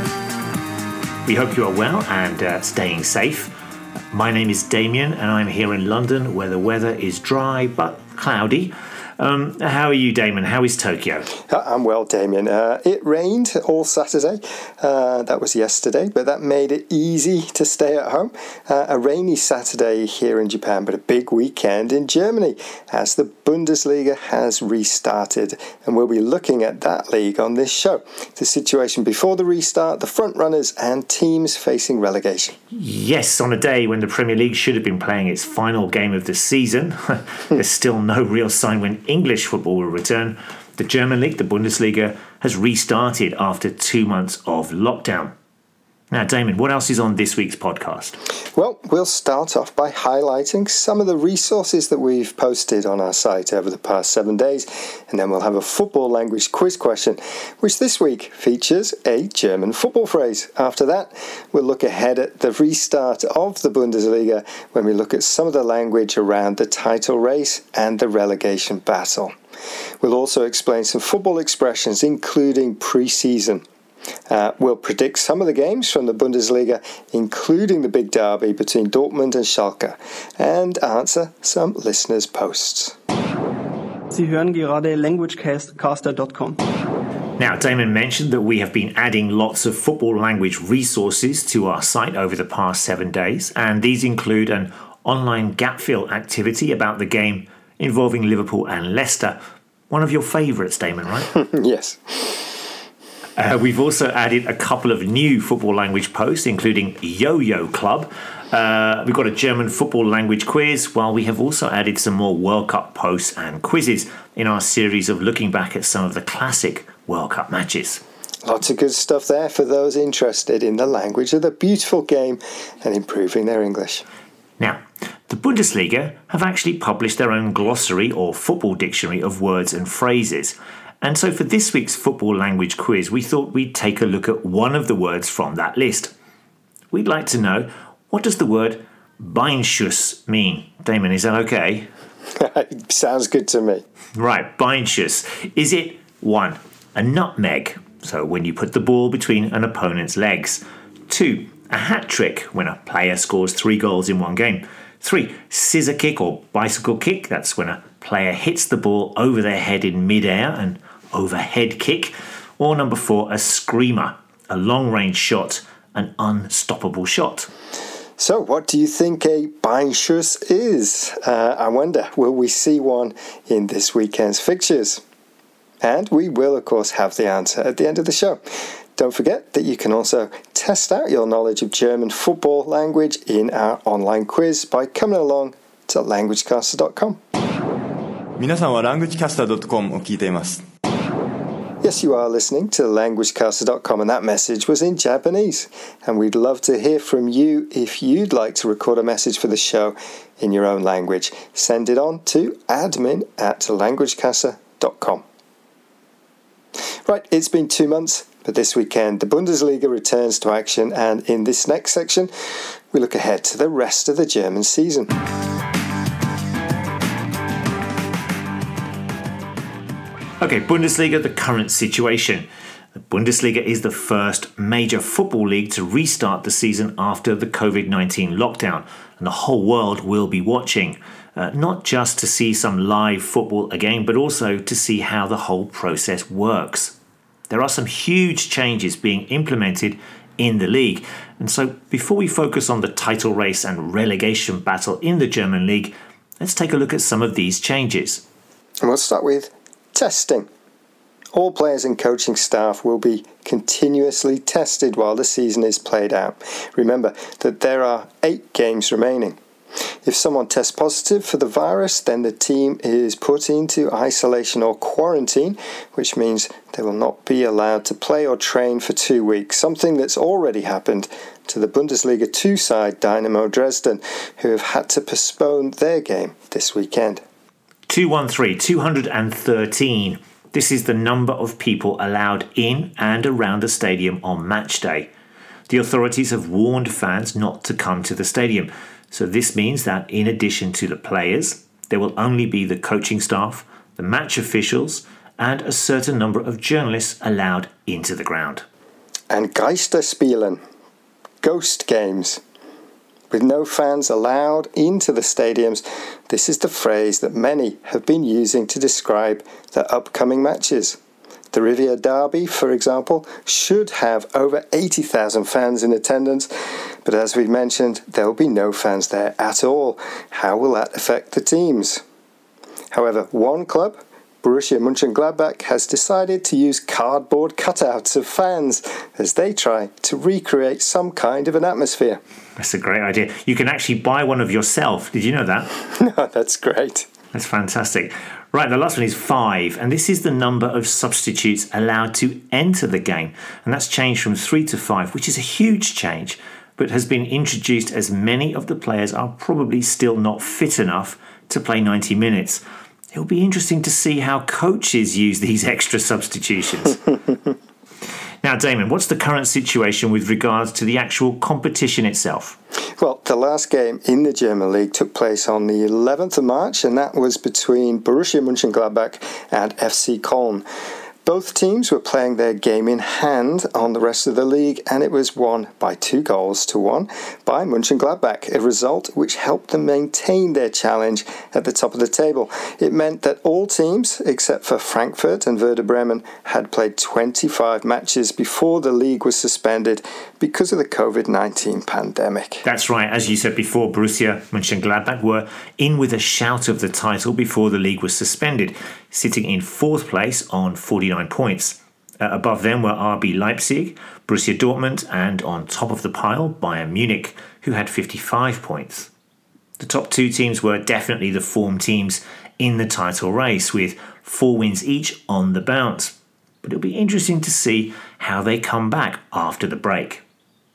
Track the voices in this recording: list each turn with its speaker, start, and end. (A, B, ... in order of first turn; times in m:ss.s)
0:01.2-0:03.5 A
0:04.1-0:11.3 A
0:11.5-0:32.6 B
0:32.7-0:45.3 A
0:46.1-0:48.2 A
0:48.5-1:09.3 B
1:10.0-1:13.6 B
1:14.3-1:23.0 B
1:24.1-1:26.6 C
1:27.4-1:39.4 A
1:39.9-1:41.3 A
1:41.3-1:42.6 B
1:43.4-1:58.0 A
1:58.4-2:04.0 B
2:04.6-2:16.1 A
2:16.9-2:21.9 A
2:22.4-2:23.8 B
2:24.2-2:47.5 A
2:48.2-2:55.0 B
2:55.8-2:58.4 B
2:59.0-3:07.2 B
3:08.4-3:10.6 D
3:11.8-3:25.2 B
3:27.0-3:32.3 B
3:32.9-3:35.1 B
3:40.4-3:57.0 A
3:57.5-4:08.2 A
4:08.8-4:10.5 B
4:11.3-4:19.4 B
4:20.0-4:37.2 B
4:37.9-4:45.1 A
4:45.7-4:58.6 A
4:59.3-5:00.6 B
5:01.4-5:02.4 B
5:03.3-5:11.0 B
5:11.5-5:16.5 B
5:17.0-5:22.0 B
5:22.9-5:32.2 B
5:32.6-5:35.7 A
5:35.9-5:37.1 B
5:37.3-5:52.6 A
5:53.1-5:57.0 A
5:58.4-6:02.6 A
6:03.0-6:10.6 B
6:11.2-6:32.6 B
6:32.6-6:49.1 A
6:49.8-7:00.2 A